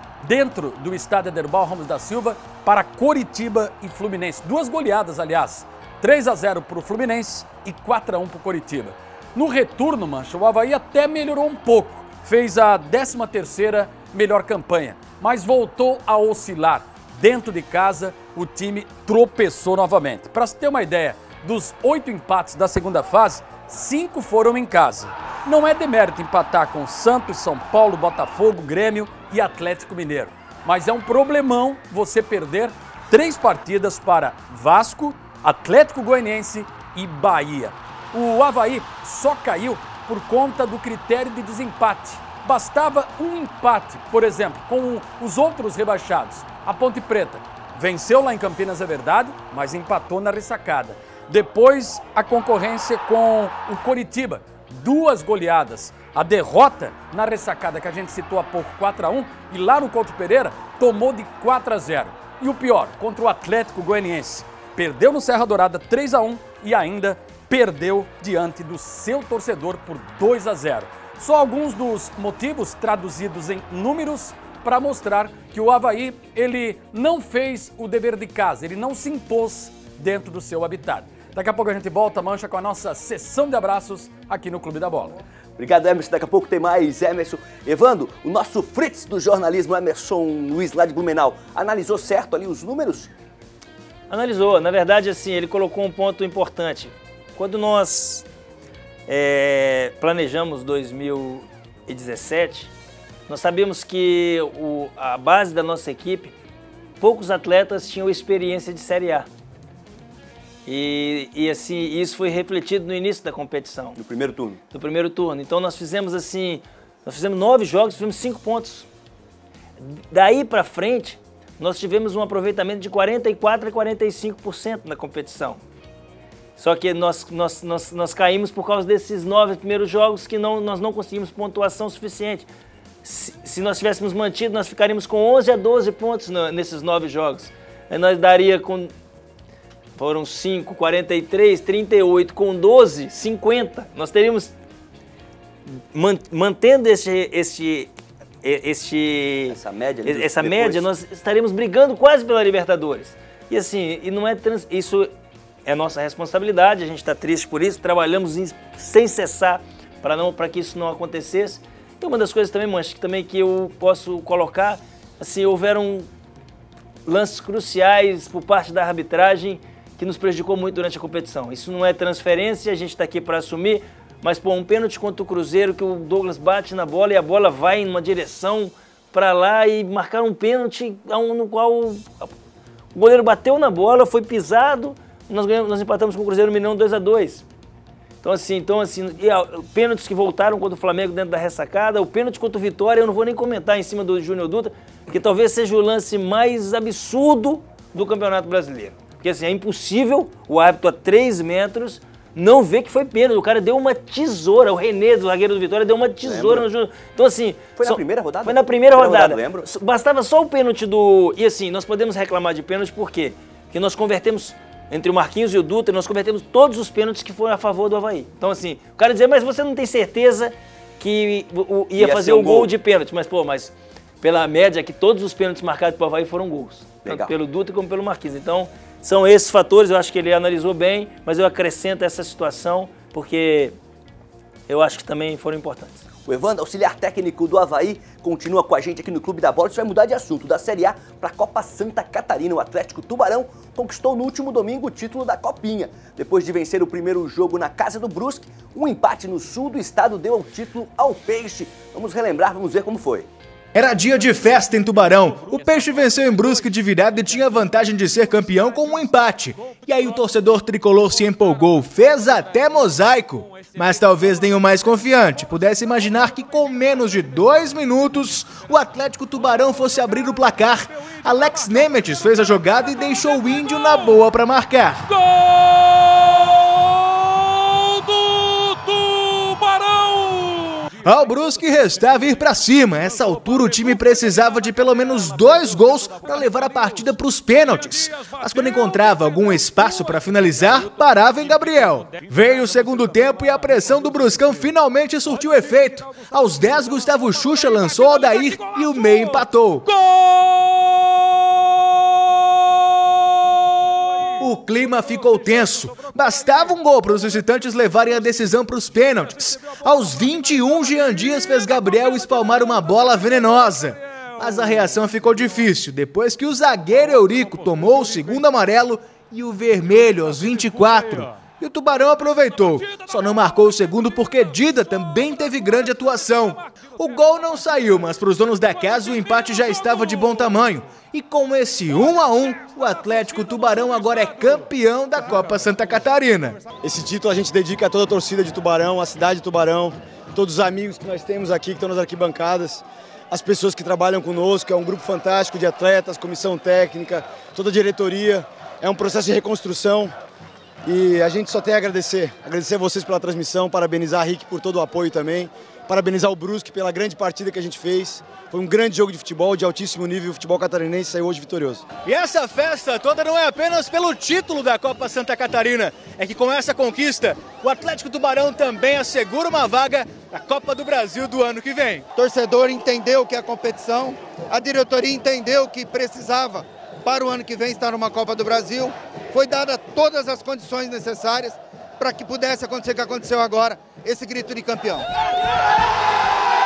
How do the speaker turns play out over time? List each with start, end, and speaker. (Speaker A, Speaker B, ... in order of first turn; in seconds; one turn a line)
Speaker A: 0.2-85.2
Speaker B: 85.6-93.1
Speaker C: 94.1-98.2
Speaker C: 99.1-102.7
Speaker C: 103.3-106.3
Speaker C: 107.0-109.3
Speaker C: 110.7-114.0
Speaker B: 114.0-114.6
Speaker C: 114.7-118.9
Speaker C: 119.8-125.6
Speaker C: 126.6-132.5
Speaker C: 133.0-138.9
Speaker C: 139.9-144.5
Speaker C: 145.7-147.9
Speaker C: 148.4-155.1
Speaker B: 149.5-150.8
Speaker C: 155.7-166.1
Speaker C: 167.1-182.3
Speaker C: 182.9-187.4
Speaker C: 188.2-233.7
Speaker B: 206.2-206.7
Speaker B: 207.8-209.7
Speaker B: 222.0-222.7
Speaker B: 227.0-227.3
Speaker C: 234.7-236.0
Speaker B: 236.2-253.3
Speaker D: 253.7-275.1
Speaker A: 275.2-276.5
Speaker A: 278.0-280.4
Speaker D: 281.0-299.9
Speaker D: 304.4-336.6
Speaker E: 336.8-350.1
Speaker E: 350.9-361.9
Speaker D: 362.0-372.0
Speaker F: 372.1-385.1